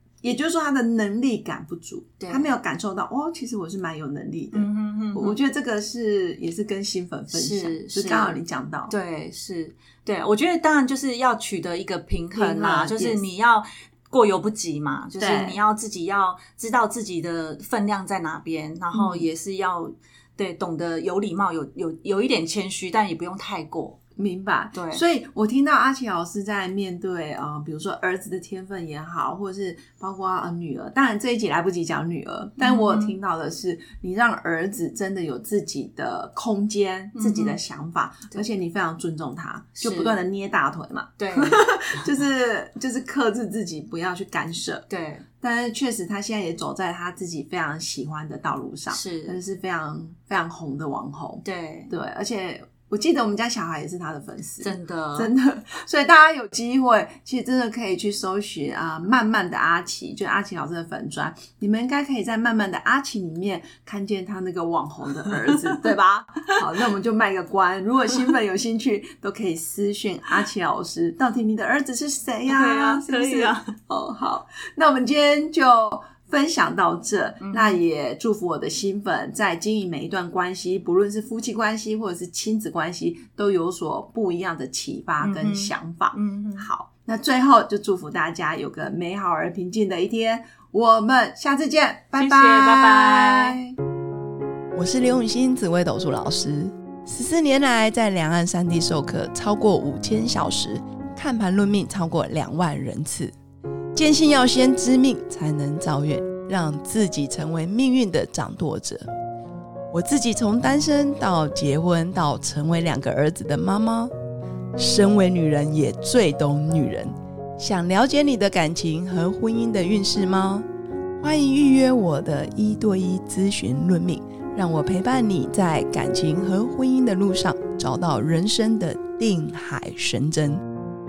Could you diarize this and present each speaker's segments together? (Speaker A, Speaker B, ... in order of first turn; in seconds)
Speaker A: 0.2-8.9, 12.3-13.2, 15.2-15.6, 18.9-19.3, 24.2-44.9, 45.4-93.8
Speaker B: 2.2-2.5, 4.5-5.4, 7.3-24.0, 24.7-25.0, 32.6-33.2, 37.2-37.6, 39.8-40.2, 41.2-41.6, 44.9-45.3, 48.9-49.4, 51.4-51.9, 54.6-55.3, 65.2-65.8, 72.5-73.7, 77.4-77.8, 85.2-86.7, 92.2-93.6
Speaker C: 94.7-103.3, 103.9-109.0, 109.9-114.1, 114.8-120.7, 121.2-130.6